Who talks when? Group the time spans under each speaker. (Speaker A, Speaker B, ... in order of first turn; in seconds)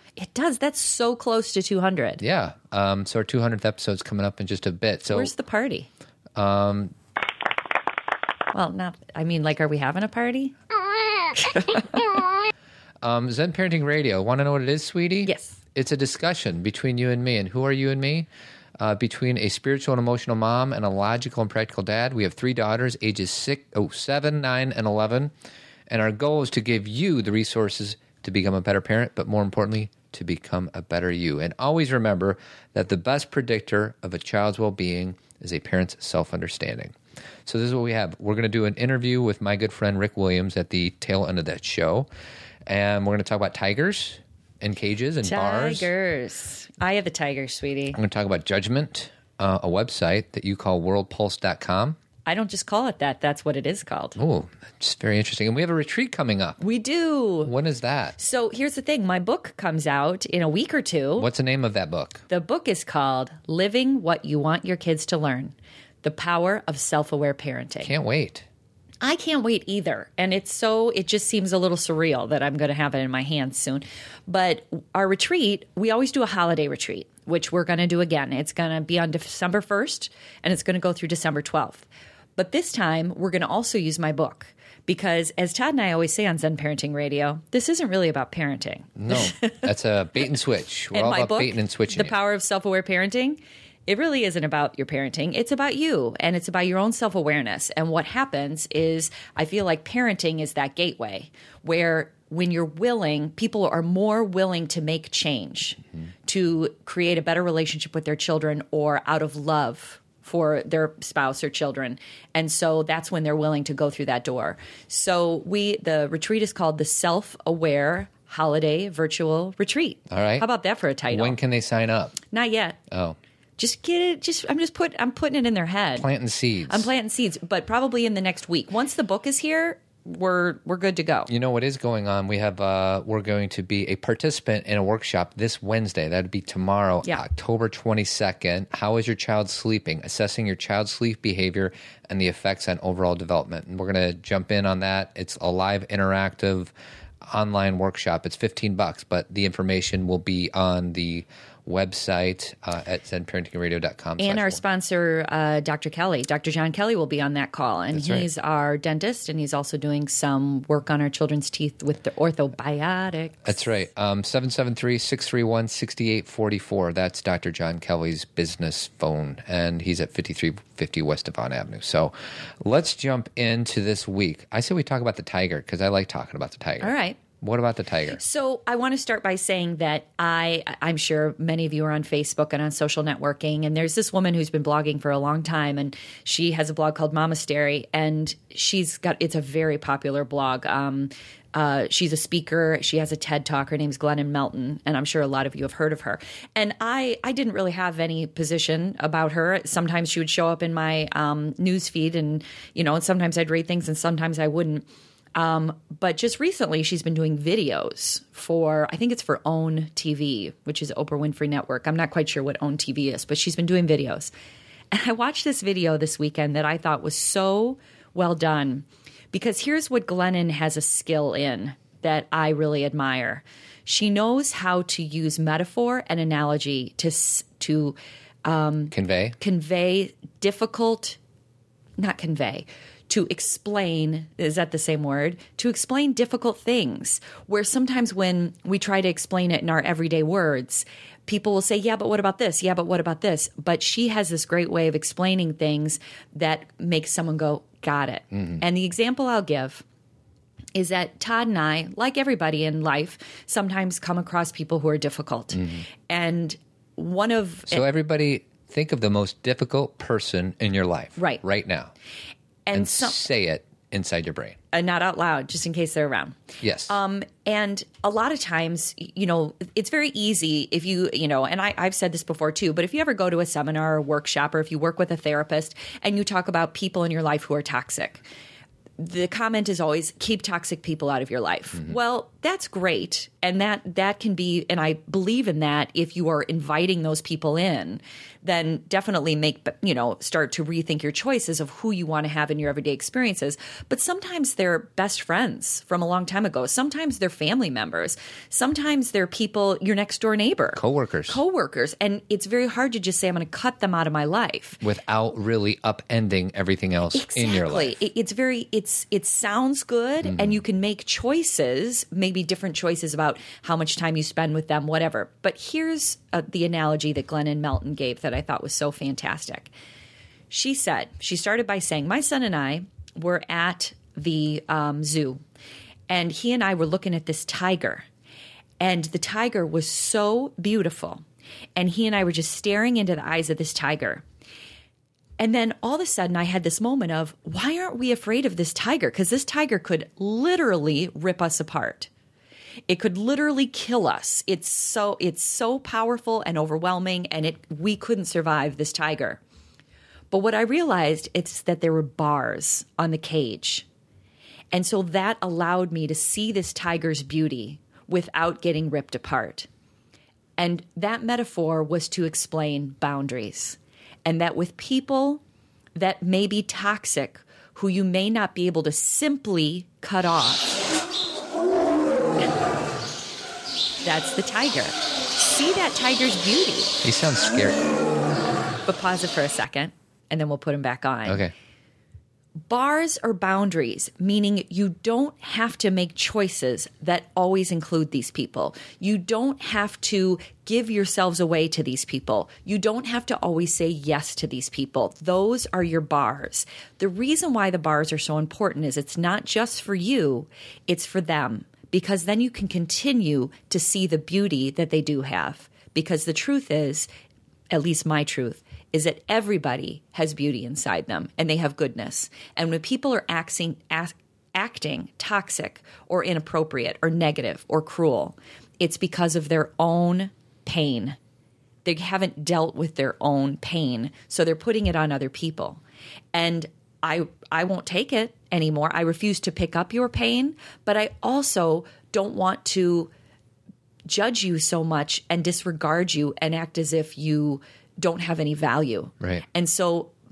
Speaker A: 0.2-2.2, 5.1-5.9, 8.5-10.6, 11.4-12.0, 15.2-15.6, 45.2-48.0, 52.3-54.2, 56.6-57.5, 58.2-61.3, 62.3-67.9, 69.0-89.7, 90.9-121.4, 122.3-122.8, 123.6-126.1, 126.7-131.3, 154.2-163.6, 176.8-177.2, 178.2-214.3, 214.9-231.2, 232.0-249.8, 250.8-257.8, 262.7-263.2, 264.7-278.2, 279.0-304.8, 307.1-319.7, 320.5-325.4, 326.1-328.1, 328.8-331.2, 331.8-334.2, 335.4-342.1, 342.9-349.4, 350.3-353.9, 354.7-359.7, 360.6-365.4, 365.9-370.9, 374.0-377.0, 378.9-381.4, 382.7-407.1, 407.7-421.2, 421.9-425.8, 426.3-433.1, 434.1-440.2
Speaker B: 2.2-5.3, 6.4-6.9, 13.0-18.3, 18.8-25.3, 25.9-37.0, 37.5-42.1, 42.7-45.9, 47.9-52.0, 54.2-56.6, 57.4-58.2, 61.2-62.2, 67.8-68.5, 89.0-92.2, 120.1-120.5, 121.1-122.2, 122.9-123.2, 126.0-126.9, 131.3-146.7, 147.3-154.6, 157.9-158.3, 163.4-178.2, 228.9-229.4, 248.3-248.6, 257.7-261.9, 262.7-264.6, 266.6-266.9, 300.7-301.4, 304.8-308.0, 310.2-310.6, 377.0-377.8, 381.2-381.5